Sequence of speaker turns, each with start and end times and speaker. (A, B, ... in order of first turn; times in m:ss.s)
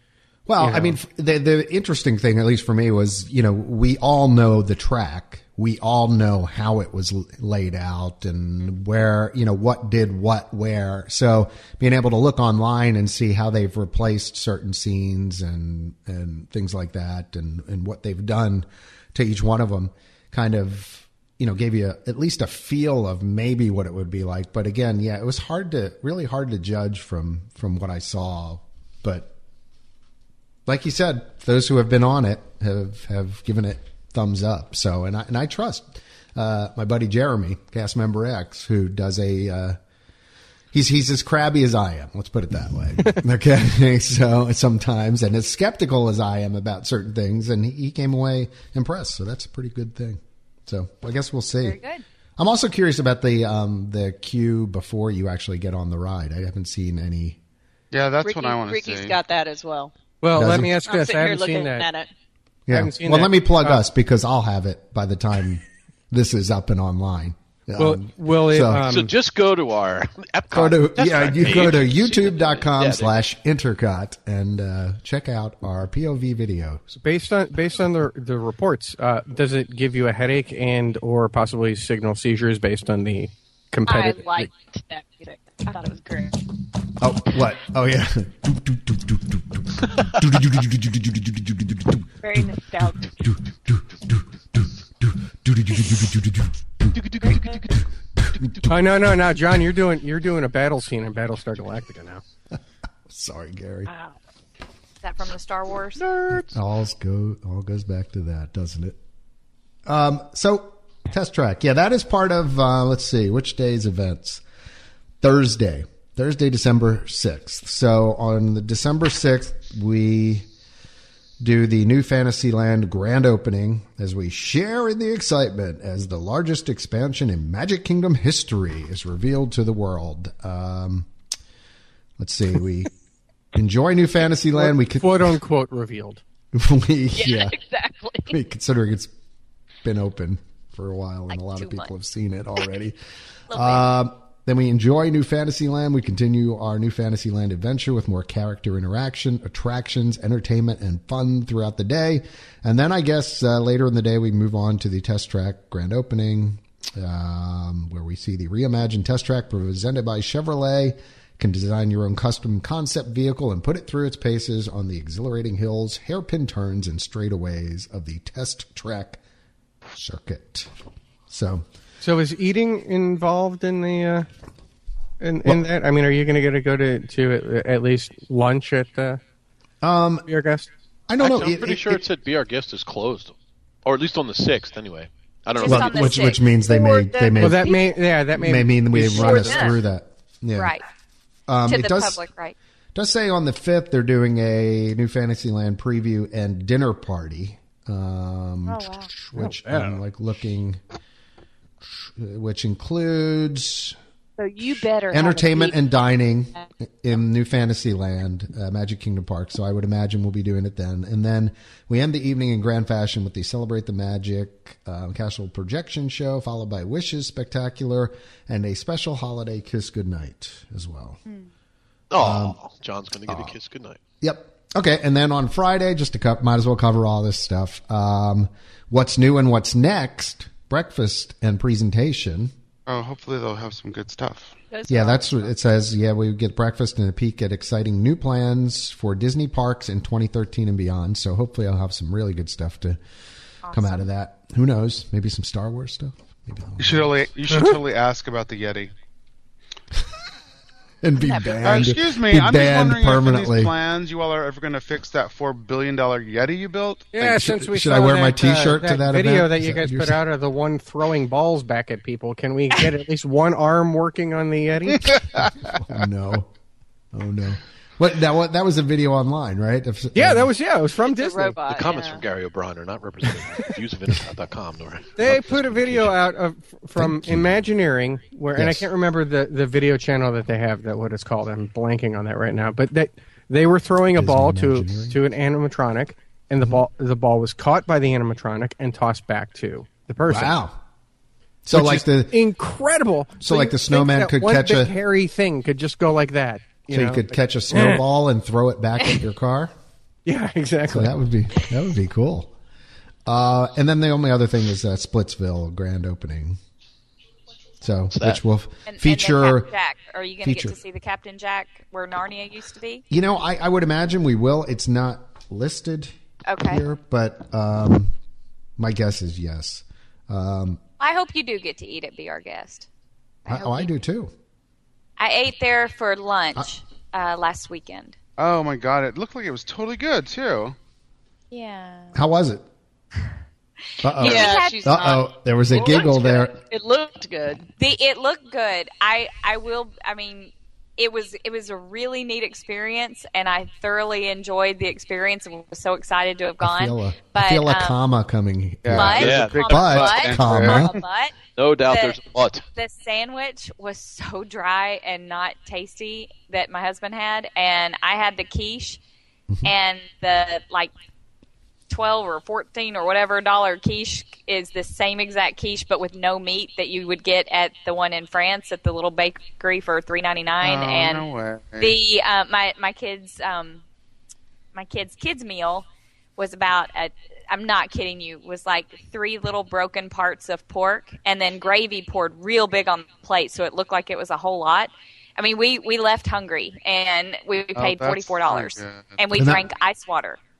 0:00.5-0:29.3 A
0:00.6-0:01.0 B
0:30.7-0:39.8 A
0:40.7-0:51.8 A
0:51.6-0:52.0 C
0:52.4-0:57.4 A
0:57.9-0:59.2 D
0:58.2-0:59.9 E
1:00.2-1:01.9 B
1:00.3-1:00.7 A
1:00.8-1:02.1 E
1:02.7-1:08.9 A
1:02.7-1:03.8 B
1:07.8-1:09.1 B
1:08.8-1:13.2 F
1:10.5-1:16.9 A
1:17.0-1:24.5 B
1:23.9-1:26.4 E
1:27.0-1:32.5 A
1:32.2-1:33.1 E
1:33.2-1:37.0 A
1:36.9-1:38.8 F
1:37.2-1:37.5 E
1:38.2-1:38.7 A
1:38.6-1:42.2 B
1:43.1-1:43.9 A
1:43.9-1:44.2 E
1:45.0-1:46.0 C
1:46.0-1:46.6 F
1:46.3-1:49.0 A
1:49.9-1:54.4 A
1:55.2-2:00.5 A
2:01.4-2:11.1 A
2:12.2-2:12.9 A
2:13.5-2:15.4 A
2:14.6-2:16.2 B
2:16.5-2:17.6 A
2:17.2-2:18.3 E
2:18.3-2:19.1 A
2:19.8-2:23.0 A
2:21.3-2:21.9 C
2:23.5-2:23.8 C
2:23.5-2:49.2 A
2:49.9-2:50.7 A
2:51.3-2:51.6 A
2:52.0-2:54.3 B
2:55.2-2:59.2 B
2:59.8-3:00.3 A
3:00.3-3:00.7 B
3:01.1-3:02.0 A
3:01.2-3:06.2 F
3:05.6-3:06.4 C
3:05.6-3:07.8 A
3:06.7-3:07.9 E
3:07.4-3:09.7 B
3:08.3-3:10.7 A
3:09.1-3:09.8 E
3:10.6-3:10.8 C
3:11.5-3:12.2 A
3:11.7-3:12.6 C
3:13.0-3:20.8 A
3:19.3-3:20.0 B
3:22.0-3:24.0 A
3:24.4-3:25.8 E
3:25.1-3:41.2 A
3:42.1-3:44.0 F
3:42.2-3:42.6 A
3:43.3-3:43.6 A
3:44.2-3:52.5 A
3:52.9-3:54.5 D
3:54.7-3:55.5 E
3:54.9-4:03.0 A
4:03.7-4:04.0 C
4:03.7-4:07.1 A
4:06.8-4:08.9 D
4:11.0-4:13.7 A
4:11.2-4:11.9 C
4:11.6-4:17.1 D
4:17.1-4:25.1 B
4:17.2-4:20.2 A
4:25.2-4:26.5 A
4:27.1-4:30.5 A
4:30.1-4:31.6 B
4:31.0-4:32.2 E
4:31.7-4:36.2 F
4:35.2-4:50.6 B
4:37.0-4:37.7 A
4:38.5-4:38.9 A
4:44.1-4:45.2 A
4:50.2-4:50.8 A
4:51.6-4:52.4 A
4:51.7-4:58.0 B
4:53.4-4:55.0 A
4:56.9-4:59.7 A
5:00.3-5:01.1 B
5:00.9-5:02.5 A
5:03.3-5:06.6 A
5:07.8-5:09.7 A
5:08.1-5:08.4 F
5:08.9-5:13.0 C
5:10.4-5:10.8 A
5:13.1-5:18.1 A
5:16.5-5:16.8 C
5:18.8-5:20.8 A
5:21.0-5:22.9 C
5:23.5-5:23.9 C
5:23.5-5:24.3 A
5:25.2-5:28.2 C
5:28.4-5:30.8 D
5:31.5-5:32.2 C
5:32.1-5:32.6 A
5:34.0-5:36.6 A
5:34.2-5:35.0 C
5:34.2-5:37.7 E
5:37.8-5:48.0 C
5:46.6-5:51.0 A
5:48.8-5:51.0 D
5:48.9-5:51.4 C
5:49.1-5:50.3 F
5:51.6-5:52.7 F
5:51.9-5:52.2 C
5:52.8-5:59.0 C
5:59.6-6:00.9 C
6:01.9-6:11.3 C
6:10.6-6:12.0 D
6:11.8-6:13.8 C
6:14.7-6:30.4 C
6:27.8-6:29.2 D
6:29.4-6:29.6 A